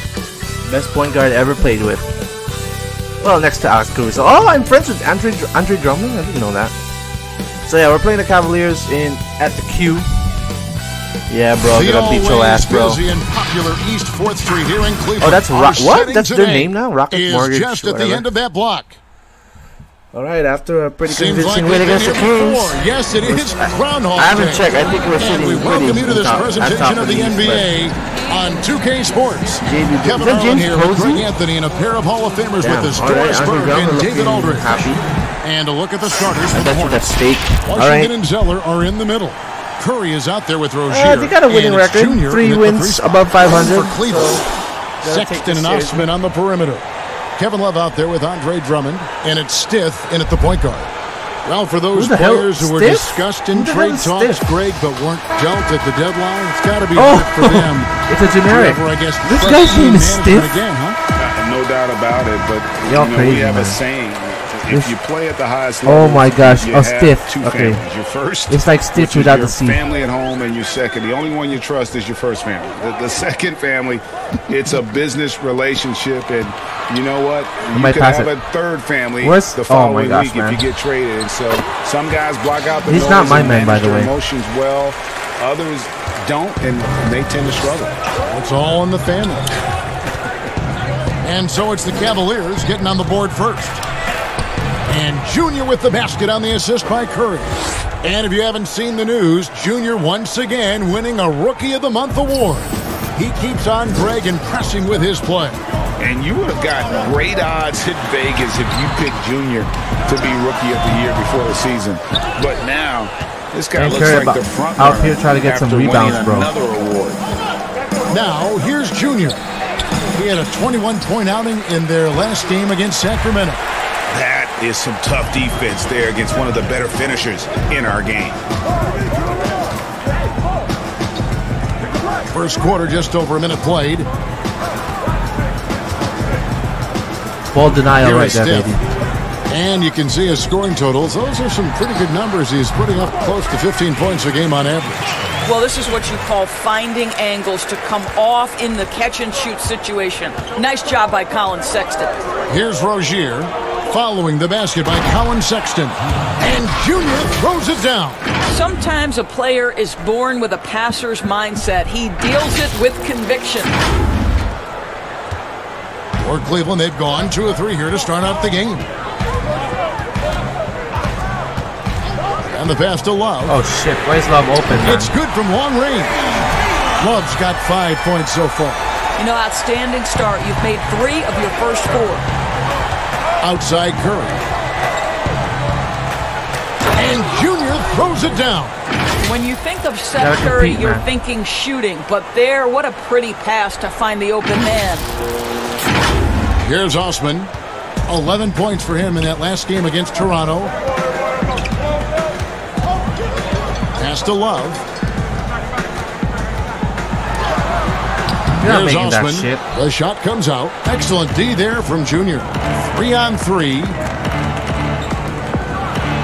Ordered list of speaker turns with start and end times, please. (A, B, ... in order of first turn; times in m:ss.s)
0:00.6-0:02.1 A
0:03.2-0:06.7 A
0:07.6-0:10.1 A
0:11.3-0:13.0 A
0:11.6-0:19.0 B
0:15.2-0:18.2 A
0:20.1-0:22.7 A
0:21.0-0:44.4 B
0:23.2-0:27.7 A
0:24.7-0:25.1 C
0:28.0-0:29.6 C
0:29.6-0:31.2 A
0:32.6-0:35.0 A
0:36.5-0:38.1 A
0:40.9-0:44.4 A
0:45.0-0:46.0 A
0:45.0-0:50.9 B
0:51.4-1:01.0 B
0:51.9-0:54.4 A
0:57.0-1:00.6 A
1:01.2-1:28.0 D
1:02.9-1:03.8 A
1:05.8-1:07.8 A
1:08.5-1:09.8 A
1:17.7-1:18.3 A
1:19.2-1:20.6 A
1:22.9-1:24.1 A
1:28.3-1:29.5 B
1:31.2-1:33.8 B
1:34.9-1:45.6 B
1:46.0-1:57.2 D
1:53.8-1:56.5 A
1:58.1-1:59.4 B
2:00.1-2:03.6 B
2:04.1-2:08.4 D
2:12.3-2:14.1 B
2:17.5-2:18.8 A
2:18.0-2:18.8 B
2:19.5-2:25.0 B
2:25.4-2:32.2 C
2:32.5-2:38.2 B
2:38.5-2:43.8 C
2:46.2-2:48.8 B
2:52.4-2:53.6 B
2:53.5-2:55.1 A
2:54.8-2:56.2 B
2:57.0-2:58.9 B
2:59.2-3:02.2 C
3:03.4-3:04.4 B
3:06.9-3:08.8 B
3:09.2-3:15.1 C
3:10.2-3:11.0 A
3:16.6-3:17.5 B
3:18.1-3:20.7 B
3:24.0-3:24.8 B
3:28.6-3:29.6 A
3:28.6-3:34.0 B